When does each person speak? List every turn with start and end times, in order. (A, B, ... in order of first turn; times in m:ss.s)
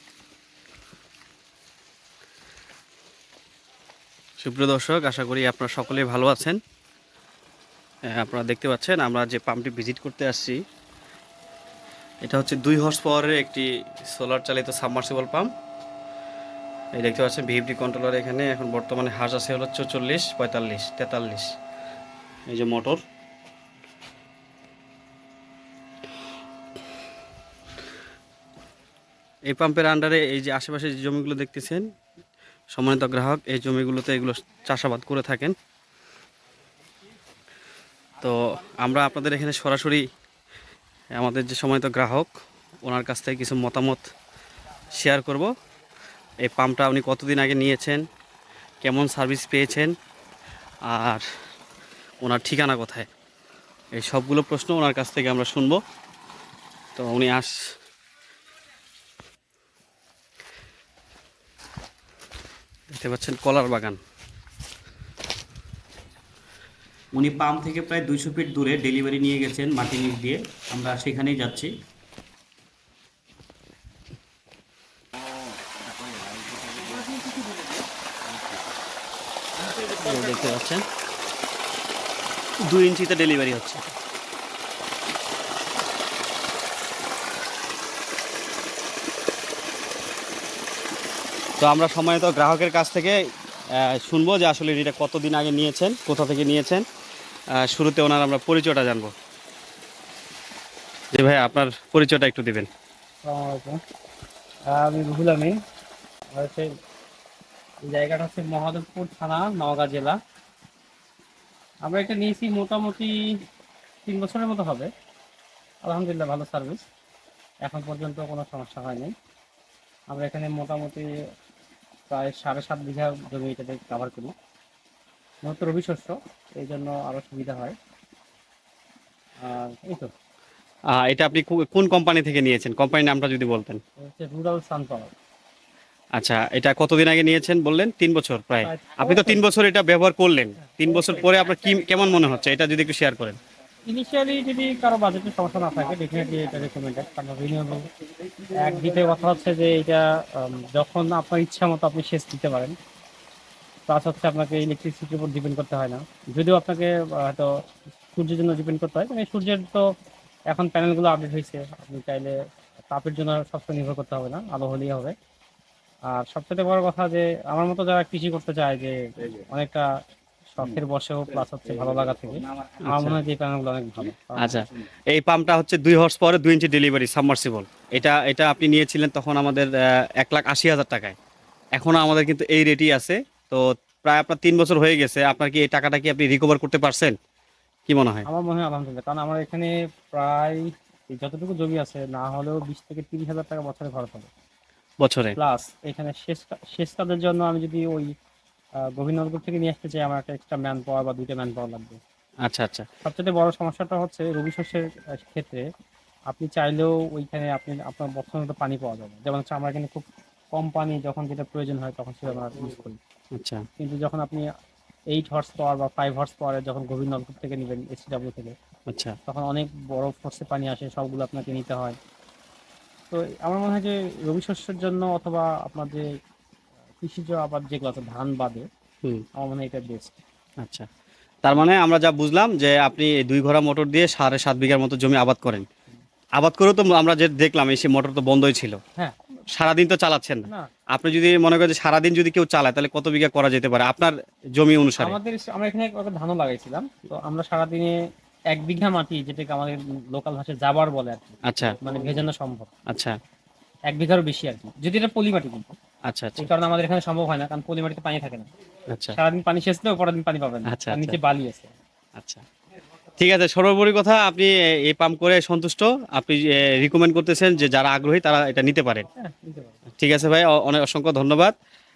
0:04.4-0:06.6 A
0:08.1-0:10.6 A
0:12.2-0:15.5 A
0:17.0-0:21.5 A
0:22.5-0:23.0 A
0:29.5-0:31.8 A
0:32.7-0:35.5 A
0:38.2-0:40.0 A
0:41.2-0:42.3 A
0:42.8-0:44.0 A
0:44.9-0:45.5 A
0:46.4-0:48.0 A
0:48.8-0:49.9 A
0:50.9-0:51.2 A
0:52.2-0:53.1 A
0:54.0-0:55.8 A
0:57.0-0:57.5 A
1:02.9-1:04.0 A
1:07.2-1:11.7 A
1:19.8-1:20.8 A
1:22.6-1:23.8 A
1:31.6-1:33.2 A
1:33.8-1:36.8 A
1:37.6-1:39.1 A
1:41.1-1:42.7 A
1:43.3-1:43.8 B
1:44.7-1:45.6 B
1:46.3-1:46.7 B
1:47.8-1:50.2 B
1:51.8-1:53.2 B
1:54.1-1:54.9 B
1:55.8-1:56.8 B
1:57.6-1:59.1 B
2:00.1-2:01.0 B
2:02.1-2:04.3 B
2:05.4-2:07.8 B
2:09.4-2:10.1 B
2:10.9-2:13.8 A
2:14.0-2:15.1 B
2:16.2-2:23.4 A
2:18.6-2:19.4 B
2:23.9-2:27.9 B
2:28.5-2:32.8 B
2:33.9-2:37.5 B
2:38.1-2:39.8 B
2:40.5-2:42.3 B
2:42.9-2:45.1 B
2:46.1-2:49.8 B
2:50.6-2:54.6 B
2:52.9-2:53.2 A
2:54.4-3:01.2 A
3:01.8-3:07.2 A
3:07.9-3:08.3 A
3:08.3-3:14.3 B
3:15.0-3:15.4 A
3:15.4-3:18.1 B
3:18.9-3:22.0 B
3:22.4-3:22.9 A
3:23.0-3:25.6 B
3:26.3-3:33.0 B
3:33.3-3:33.6 A
3:33.8-3:34.5 B
3:35.1-3:38.6 B
3:38.9-3:39.2 A
3:39.3-3:42.0 B
3:43.1-3:46.1 B
3:47.0-3:48.7 B
3:49.4-3:50.2 B
3:50.6-3:50.9 A
3:51.4-3:55.7 A
3:56.4-3:58.8 A
3:59.6-4:05.2 A
4:05.0-4:08.0 B
4:08.5-4:12.7 B
4:11.5-4:11.8 A
4:12.9-4:13.2 A
4:13.9-4:15.8 B
4:16.1-4:16.5 A
4:16.4-4:18.5 B
4:18.9-4:19.2 A
4:19.1-4:21.7 B
4:20.7-4:21.2 A
4:22.2-4:22.4 A
4:23.2-4:29.1 A
4:29.2-4:29.8 B
4:30.0-4:31.5 A